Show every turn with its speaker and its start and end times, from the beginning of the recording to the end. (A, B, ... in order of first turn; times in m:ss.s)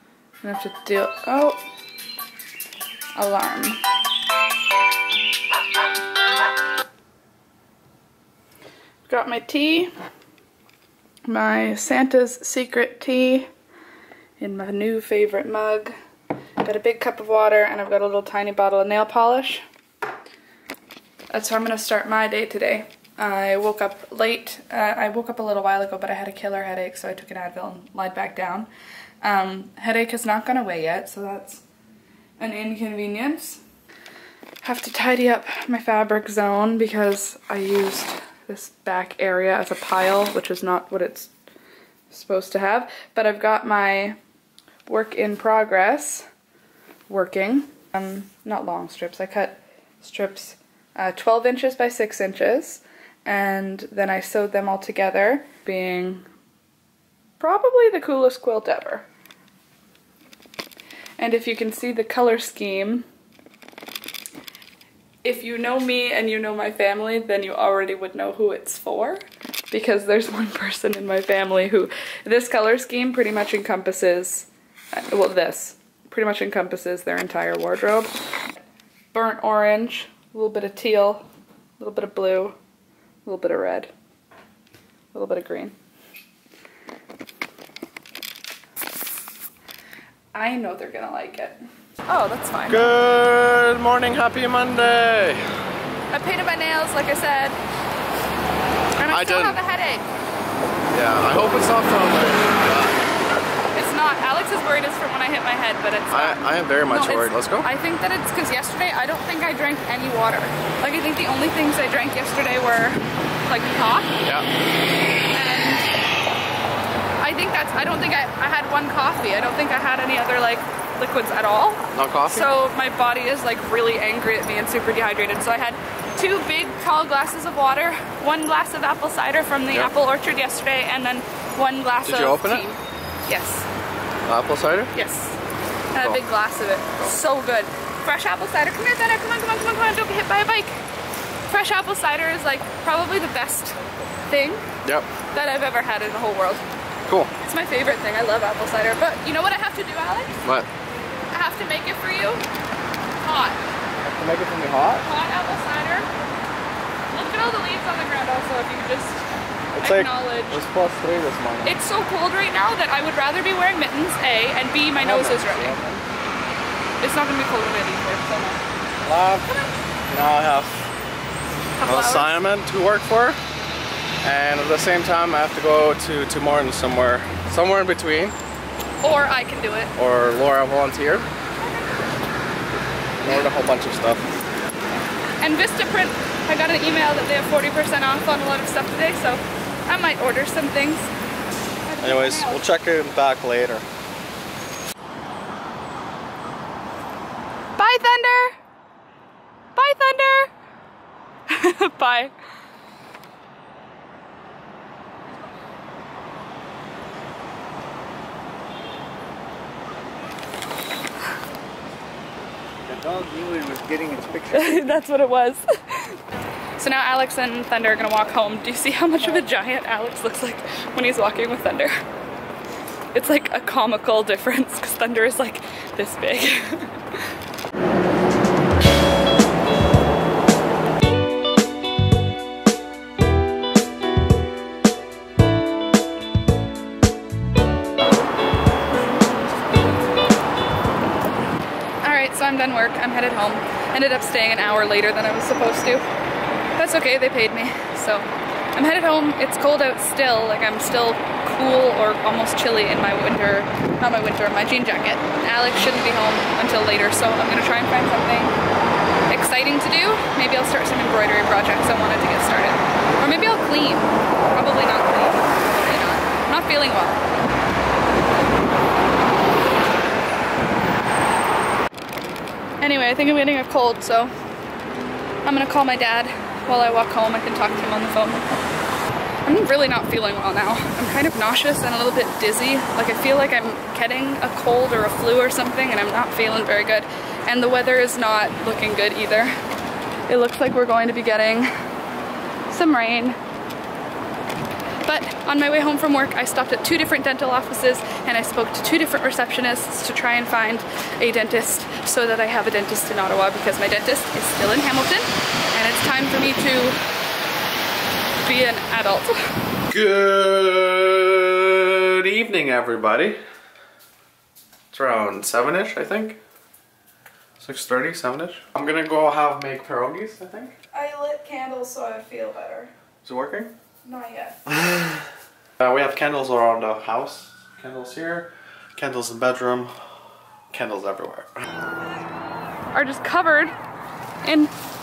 0:00.4-0:01.6 A
0:03.2-0:03.8 A
0:09.1-0:09.9 A
0:11.3-0:13.5 A
0:14.4-0:15.9 A
0:16.6-0:19.6 A
0:21.3-0:28.7 A
0:29.2-0:31.6 A
0:32.4-0:33.6 A
0:34.6-0:41.3 A
0:42.1-0:44.2 A
0:44.9-0:46.3 A
0:47.1-0:56.2 A
0:57.4-0:59.1 A
1:01.2-1:03.0 A
1:05.2-1:18.1 A
1:19.1-1:21.2 A
1:21.8-1:22.6 A
1:23.2-1:23.9 A
1:25.1-1:25.7 A
1:30.3-1:32.9 A
1:32.7-1:35.4 B
1:36.1-1:37.6 A
1:39.0-1:40.0 A
1:39.1-1:39.6 B
1:40.9-1:43.0 B
1:43.7-1:54.1 A
1:46.1-1:47.7 B
1:55.3-1:55.9 A
1:57.2-2:13.7 A
2:01.9-2:02.5 B
2:12.0-2:12.7 B
2:14.3-2:14.9 B
2:14.9-2:15.4 A
2:15.9-2:20.8 A
2:21.5-2:24.7 A
2:25.3-2:26.6 A
2:27.4-2:30.4 A
2:31.3-2:32.4 A
2:33.2-2:33.6 A
2:34.0-2:35.1 B
2:35.0-2:36.1 A
2:37.1-2:39.2 A
2:39.7-2:41.8 B
2:39.8-2:40.6 A
2:41.6-2:45.8 A
2:45.0-2:46.0 B
2:47.0-2:48.6 A
2:49.0-2:49.5 B
2:50.1-2:50.8 B
2:51.8-2:52.4 A
2:51.9-2:53.4 B
2:54.2-2:58.4 B
2:59.0-2:59.9 A
3:00.0-3:01.3 B
3:01.6-3:01.9 A
3:03.2-3:04.3 B
3:05.4-3:11.1 A
3:11.8-3:12.7 A
3:12.0-3:13.9 B
3:17.8-3:18.6 A
3:19.8-3:20.5 A
3:21.5-3:22.3 A
3:32.9-3:34.9 C
3:34.5-3:36.2 A
3:36.8-3:41.9 A
3:43.1-3:47.0 A
4:02.0-4:06.0 A
4:06.8-4:18.6 A
4:19.3-4:27.2 A
4:32.8-4:34.3 A
4:35.4-4:38.5 A
4:39.4-4:49.5 A
4:50.3-4:51.7 A
4:52.7-4:53.4 A
4:55.1-5:07.0 A
5:08.4-5:09.4 A
5:09.9-5:13.4 B
5:14.9-5:16.4 B
5:17.6-5:20.7 B
5:20.9-5:22.9 A
5:23.2-5:23.7 B
5:24.0-5:24.6 A
5:24.7-5:25.2 B
5:25.8-5:29.9 B
5:30.7-5:31.5 B
5:32.9-5:33.7 A
5:34.4-5:34.7 A